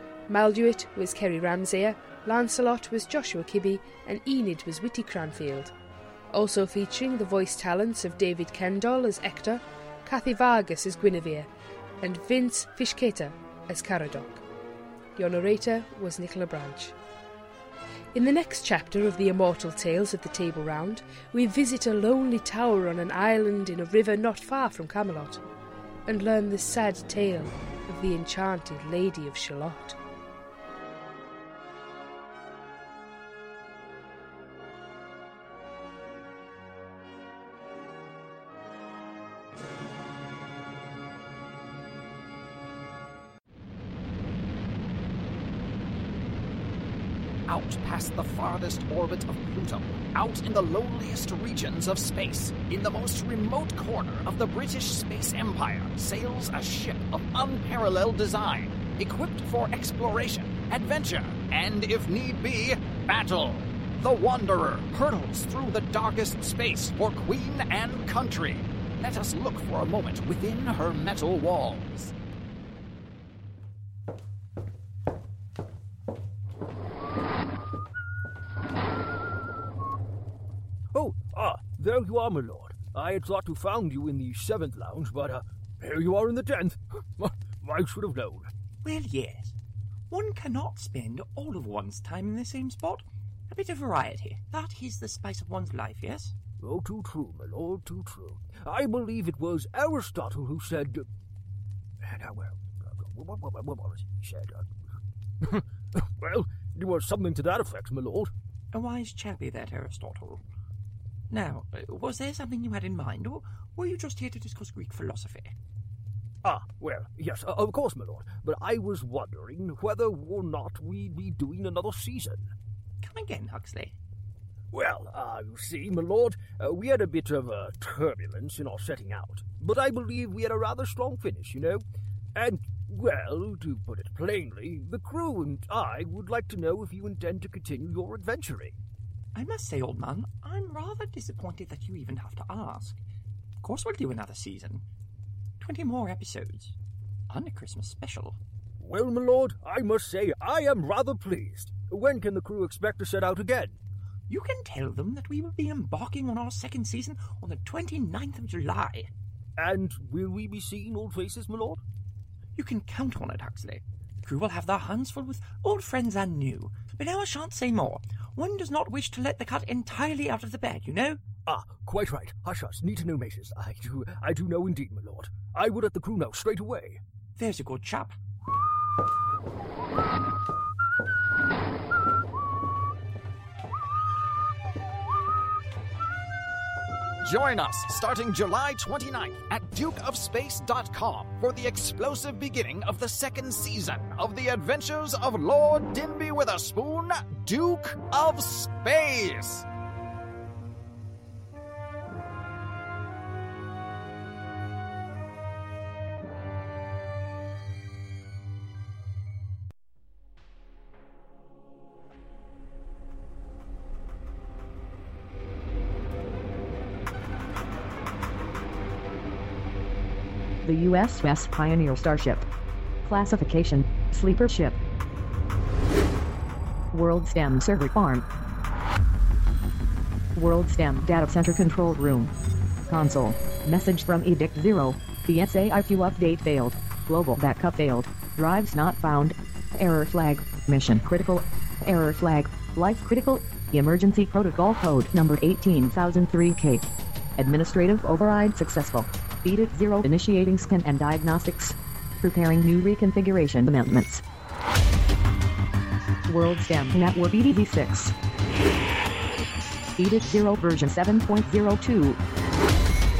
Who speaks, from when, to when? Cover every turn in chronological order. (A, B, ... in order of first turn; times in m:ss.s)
0:00.3-0:05.7 A
0:06.3-0:11.5 A
0:12.0-0:14.4 A
0:15.2-0:16.9 A
0:18.1-0:25.4 A
0:26.0-0:30.0 A
0:47.5-1:12.1 B
1:20.9-1:28.5 C
1:28.8-1:29.5 D
1:30.1-1:36.3 D
1:36.6-1:41.0 C
1:42.0-1:48.3 C
1:48.7-1:50.4 D
1:51.3-1:55.5 D
1:56.4-2:02.5 C
2:03.0-2:04.0 D
2:04.7-2:11.8 C
2:12.3-2:18.8 C
2:19.3-2:23.0 D
2:23.6-2:24.8 D
2:25.6-2:26.7 D
2:27.3-2:28.4 D
2:28.8-2:33.8 C
2:34.3-2:39.1 D
2:39.6-2:41.8 C
2:42.6-2:51.2 D
2:51.4-2:57.0 C
2:57.4-2:58.1 D
3:07.2-3:19.6 B
3:40.6-3:42.4 E
3:43.0-3:44.8 E
3:46.9-3:48.2 E
3:50.3-3:52.3 E
3:52.9-4:06.8 E
4:07.4-4:14.2 E
4:16.3-4:18.1 E
4:20.0-4:22.2 E